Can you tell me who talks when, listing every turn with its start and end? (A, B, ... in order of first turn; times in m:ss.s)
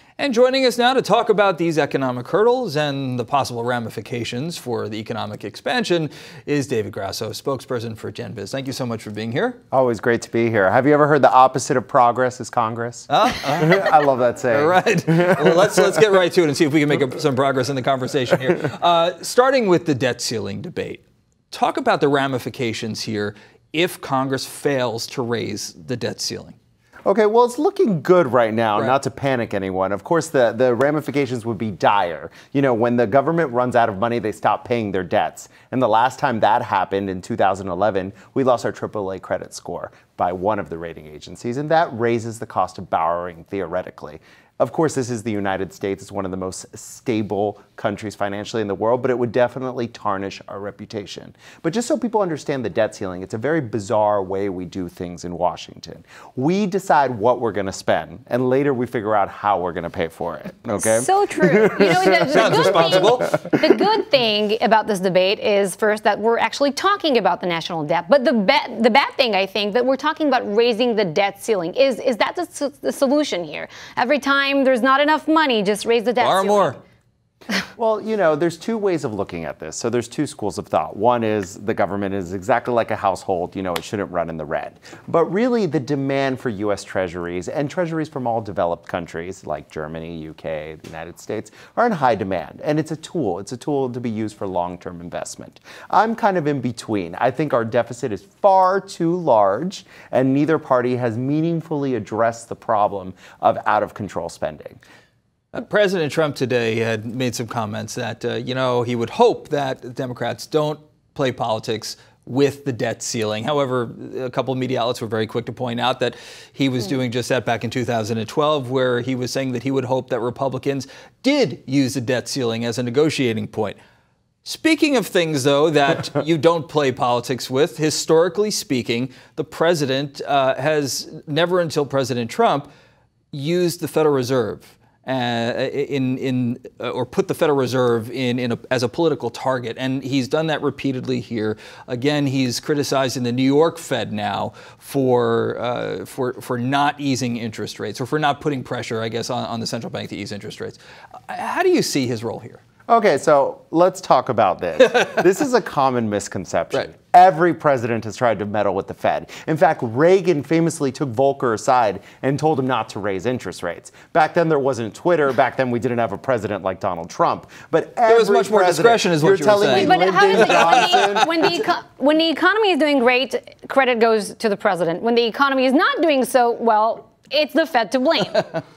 0:00.2-0:09.6 A
0:09.7-0:15.8 B
0:13.1-0:26.6 A
0:27.1-1:03.6 B
1:00.8-1:16.8 C
1:02.2-1:03.3 A
1:16.2-1:16.8 A
1:17.8-1:44.8 B
1:45.5-2:03.8 A
2:04.4-2:12.7 A
2:13.3-2:32.6 A
2:32.9-2:51.5 B
2:48.1-2:51.0 A
2:49.7-2:58.6 C